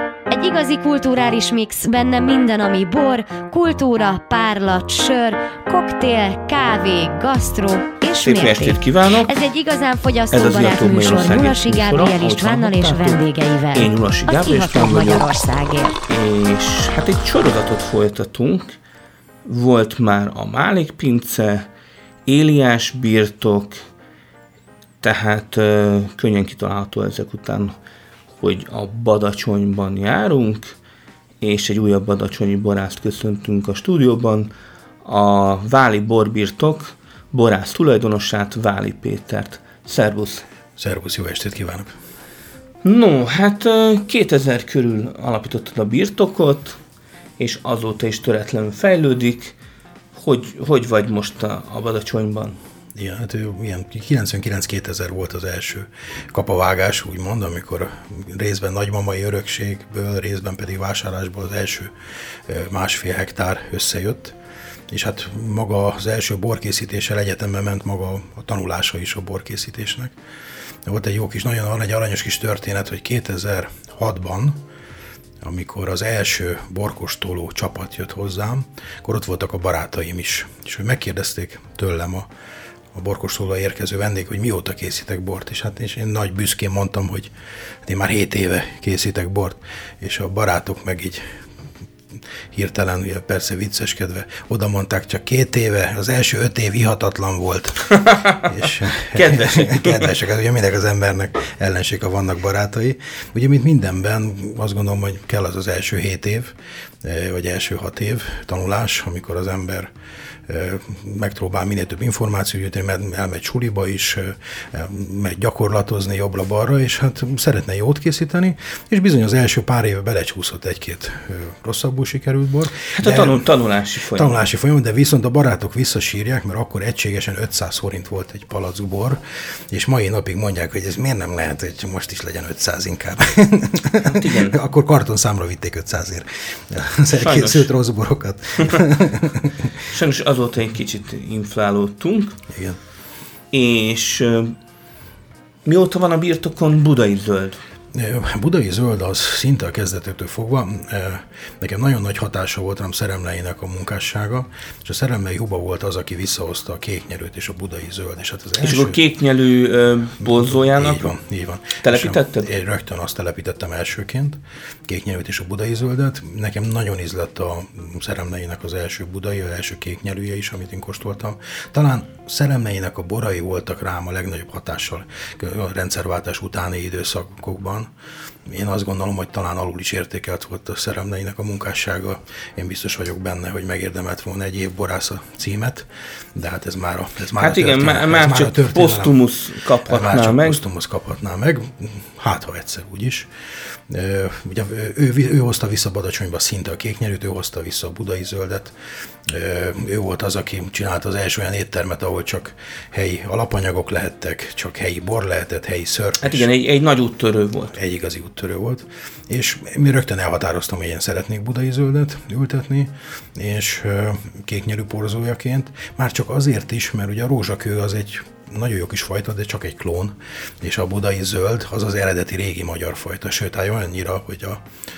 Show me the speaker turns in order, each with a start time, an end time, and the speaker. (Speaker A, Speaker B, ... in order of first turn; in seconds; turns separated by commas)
Speaker A: 0.3-16.0, Speaker B: 8.2-9.3, Speaker B: 10.3-15.3, Speaker B: 16.1-18.8, Speaker B: 19.4-21.7, Speaker B: 22.3-23.9, Speaker B: 25.0-27.8, Speaker B: 28.3-30.8, Speaker B: 31.4-34.5, Speaker B: 35.0-40.5, Speaker C: 40.8-41.9, Speaker B: 42.8-46.8, Speaker B: 47.4-49.6, Speaker B: 50.1-52.6, Speaker C: 53.0-61.9, Speaker C: 62.5-64.4, Speaker C: 64.9-70.2, Speaker C: 70.8-74.6, Speaker C: 75.4-82.3, Speaker C: 82.9-87.3, Speaker C: 87.8-91.2, Speaker C: 92.5-97.9, Speaker B: 97.9-100.1, Speaker C: 98.5-109.9, Speaker C: 110.5-123.5, Speaker B: 122.9-124.3, Speaker C: 124.1-139.8, Speaker B: 134.0-134.6, Speaker B: 137.2-137.7, Speaker B: 139.9-142.4, Speaker C: 142.5-142.8, Speaker B: 143.5-144.6, Speaker B: 145.7-147.6, Speaker C: 147.9-159.0, Speaker B: 158.6-161.1, Speaker C: 160.2-177.9, Speaker B: 161.8-162.5, Speaker C: 178.5-189.2, Speaker B: 187.4-190.6, Speaker C: 189.9-193.3, Speaker C: 193.9-206.5, Speaker B: 206.2-207.8, Speaker C: 207.7-224.6